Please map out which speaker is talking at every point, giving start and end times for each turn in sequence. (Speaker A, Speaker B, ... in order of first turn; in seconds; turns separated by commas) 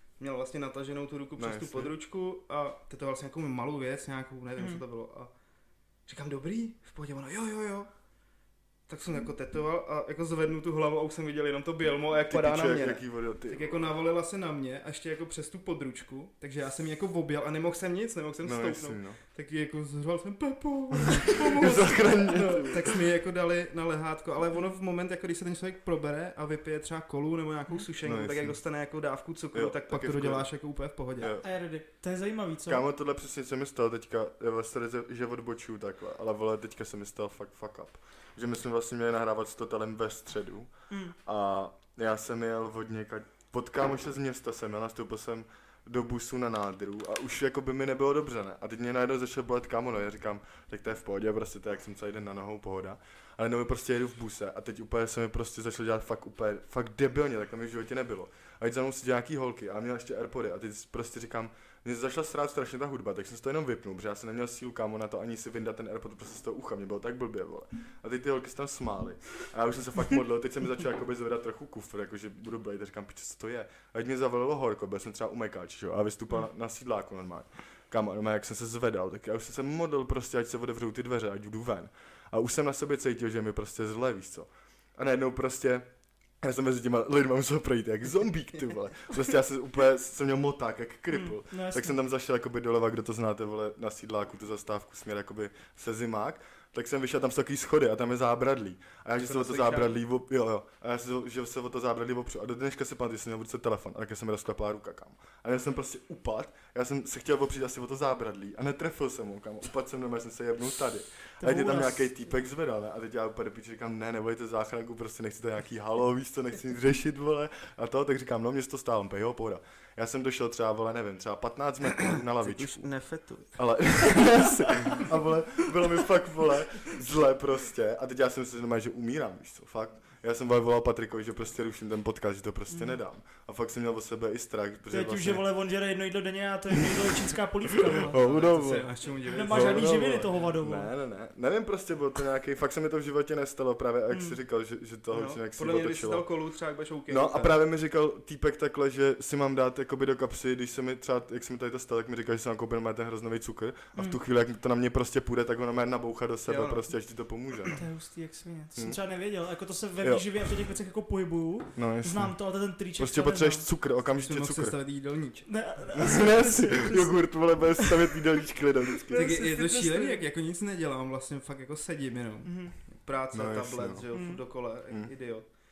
Speaker A: 0.2-5.3, Speaker B: 1.4-1.9, Speaker C: 4.6-4.8, Speaker A: 6.1-7.9, Speaker A: 8.9-31.3, Speaker B: 12.3-13.8, Speaker B: 18.4-19.2, Speaker B: 21.1-23.0, Speaker B: 28.0-28.6, Speaker B: 29.5-30.5, Speaker B: 31.2-31.4, Speaker C: 31.4-32.8, Speaker B: 32.7-85.9, Speaker C: 40.9-41.1, Speaker B: 86.4-122.9, Speaker C: 91.1-91.9, Speaker A: 99.2-100.0, Speaker C: 111.4-112.1, Speaker A: 122.0-124.0, Speaker B: 123.5-135.4, Speaker C: 132.7-133.0, Speaker C: 134.9-138.2, Speaker B: 137.8-138.9, Speaker A: 138.1-140.3, Speaker C: 139.3-140.9, Speaker B: 139.4-146.2, Speaker C: 144.1-144.3, Speaker A: 145.1-147.6, Speaker B: 147.1-157.8, Speaker A: 156.5-156.9, Speaker C: 157.8-163.6, Speaker B: 160.0-160.3, Speaker B: 161.8-162.3, Speaker B: 163.0-164.7, Speaker A: 164.2-165.5, Speaker C: 165.5-168.2, Speaker B: 165.9-169.3, Speaker C: 169.0-170.2, Speaker A: 169.1-175.5, Speaker C: 172.4-172.8, Speaker B: 173.3-174.1, Speaker C: 174.1-174.4